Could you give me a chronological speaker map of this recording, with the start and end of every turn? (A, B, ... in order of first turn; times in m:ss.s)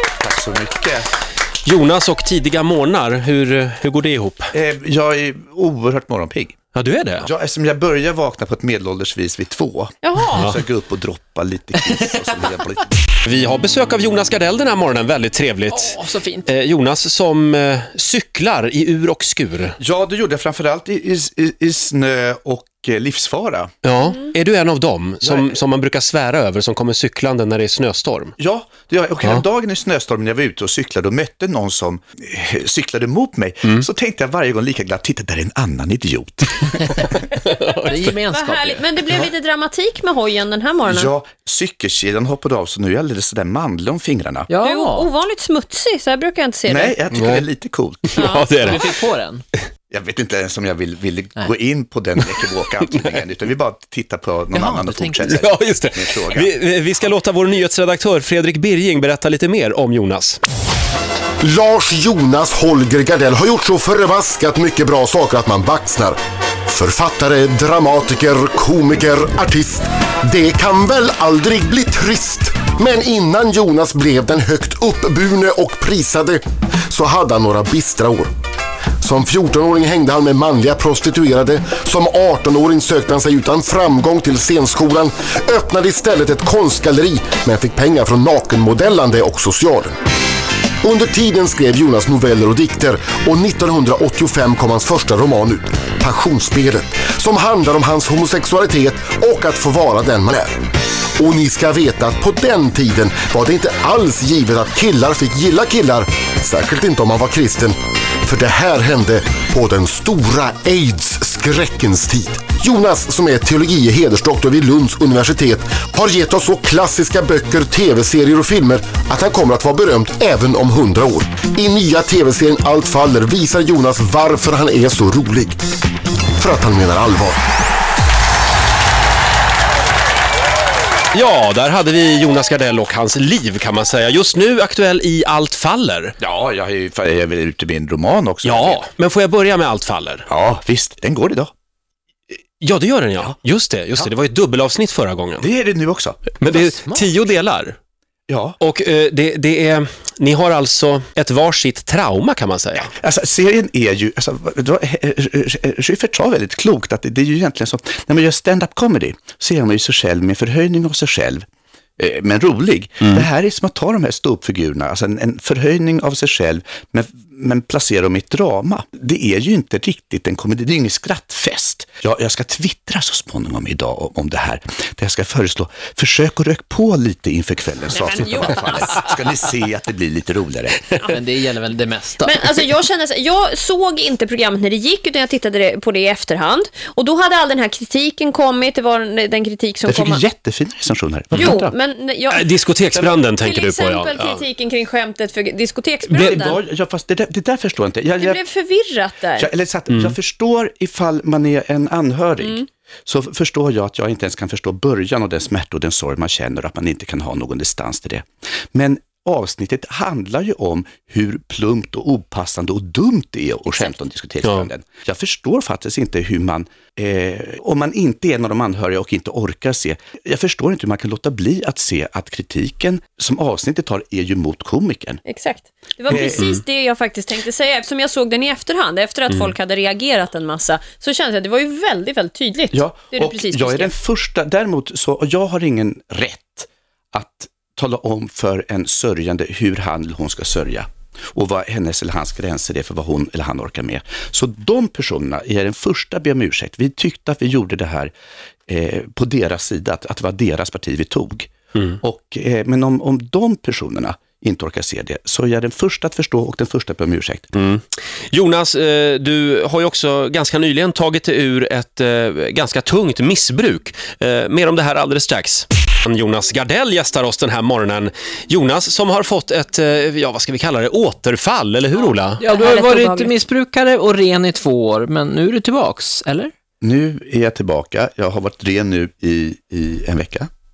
0:00.2-0:01.1 A
0:01.6-0:04.5 B
0:04.5-0:06.6 A
0:06.7-0:07.3 B
0:07.2-0:13.0 A
0:10.0-0:10.6 C
0:13.2-0:19.8 B
0:15.7-0:16.5 D
0:19.8-0:23.7 A
0:23.8-0:28.3 B
0:25.2-0:25.5 A
0:28.4-0:37.2 A
0:37.3-0:38.1 B
0:37.7-0:38.8 D
0:38.3-0:41.1 C
0:40.8-0:44.5 A
0:44.5-0:45.1 D
0:44.6-0:47.0 C
0:46.7-0:48.4 A
0:47.1-0:47.4 B
0:48.1-0:48.9 B
0:48.2-0:48.5 C
0:48.5-0:49.4 D
0:49.9-0:56.5 A
0:54.5-0:55.4 D
0:55.2-1:00.4 B
1:01.4-1:18.3 E
1:19.0-1:29.9 E
1:30.8-1:40.5 E
1:41.2-2:05.6 E
2:06.4-2:07.4 E
2:11.1-2:16.1 B
2:16.2-2:18.8 A
2:18.4-2:20.3 B
2:20.3-2:21.5 A
2:22.6-2:25.5 B
2:25.4-2:26.4 A
2:26.4-2:27.8 B
2:26.5-2:27.1 D
2:28.3-2:28.6 A
2:28.6-2:32.9 B
2:32.9-2:41.4 A
2:42.0-3:01.1 A
2:57.9-2:59.1 C
3:01.1-3:02.6 D
3:02.2-3:10.2 C
3:09.8-3:11.7 A
3:11.3-3:16.6 C
3:12.3-3:14.4 B
3:16.1-3:18.4 A
3:18.2-3:19.5 C
3:19.4-3:45.2 A
3:19.9-3:20.2 B
3:22.4-3:22.6 C
3:34.4-3:34.7 B
3:45.2-3:53.9 C
3:46.1-3:46.5 A
3:46.1-3:46.6 B
3:52.7-4:08.1 A
4:08.7-4:17.5 A
4:17.5-4:32.5 B
4:32.4-4:36.5 D
4:32.4-4:33.3 C
4:36.8-4:40.5 A